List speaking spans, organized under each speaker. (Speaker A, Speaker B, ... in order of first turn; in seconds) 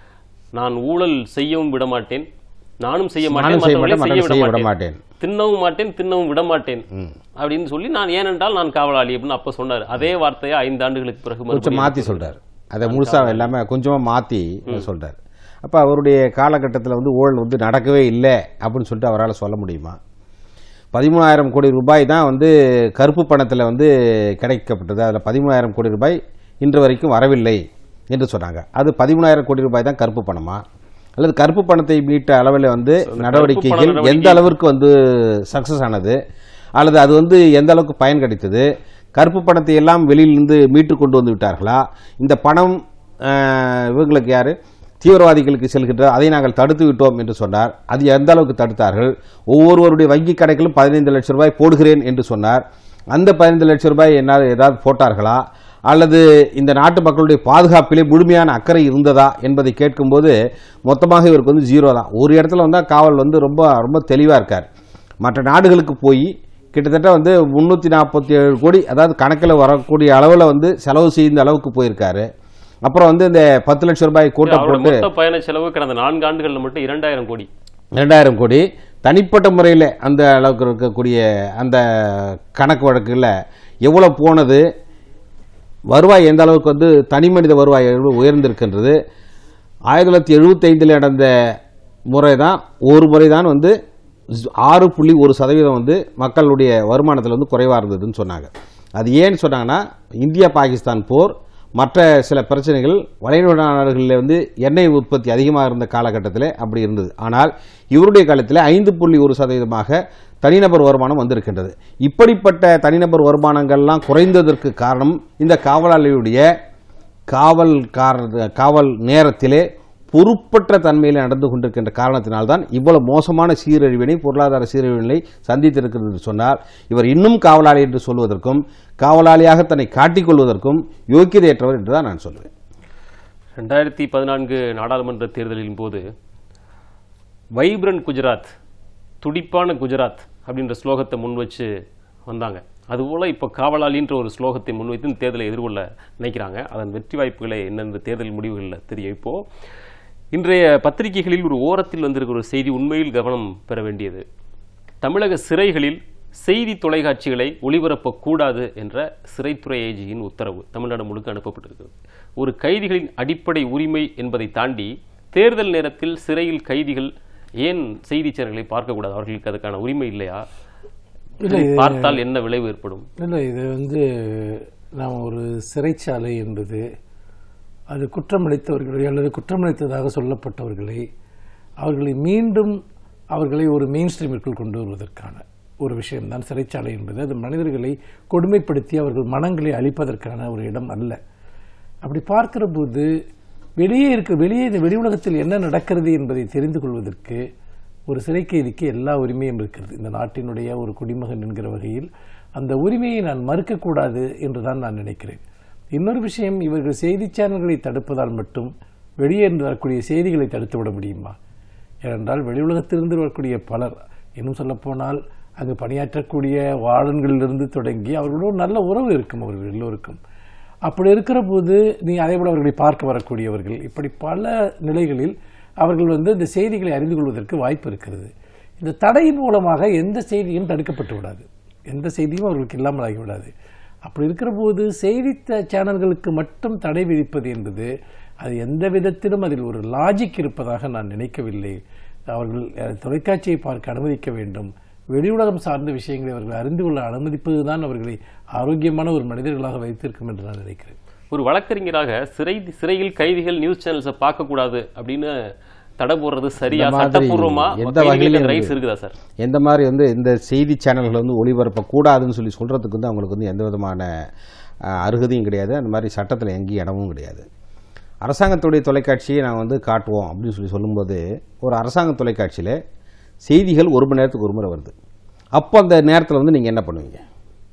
Speaker A: 0.6-2.3, 2.8-4.7, 5.2-6.9, 7.4-12.3, 12.8-13.5, 33.1-34.5, 74.5-77.5, 133.6-136.0, 137.6-138.5, 139.2-141.7, 142.3-149.4, 150.3-154.2, 155.0-170.4, 171.5-173.1, 251.3-255.3, 256.0-259.1
Speaker B: 3.2-5.0, 11.5-20.0, 20.9-23.9, 24.4-27.6, 28.1-30.6, 31.2-36.2, 36.8-60.4, 60.9-64.7, 65.2-72.3, 72.8-75.0, 78.0-83.3, 83.8-84.6, 85.9-89.0, 89.9-91.3, 92.1-93.7, 94.3-116.5, 117.3-132.5, 256.7-258.7, 259.4-264.1, 264.9-267.4, 268.2-272.8, 273.4-274.9, 275.6-277.2
Speaker C: 171.4-172.2, 173.2-176.8, 177.9-181.1, 181.8-182.8, 183.3-191.2, 192.0-193.1, 193.8-197.4, 198.1-205.4, 205.9-211.4, 212.1-220.2, 220.9-233.5, 234.1-237.9, 238.4-241.8, 242.3-250.9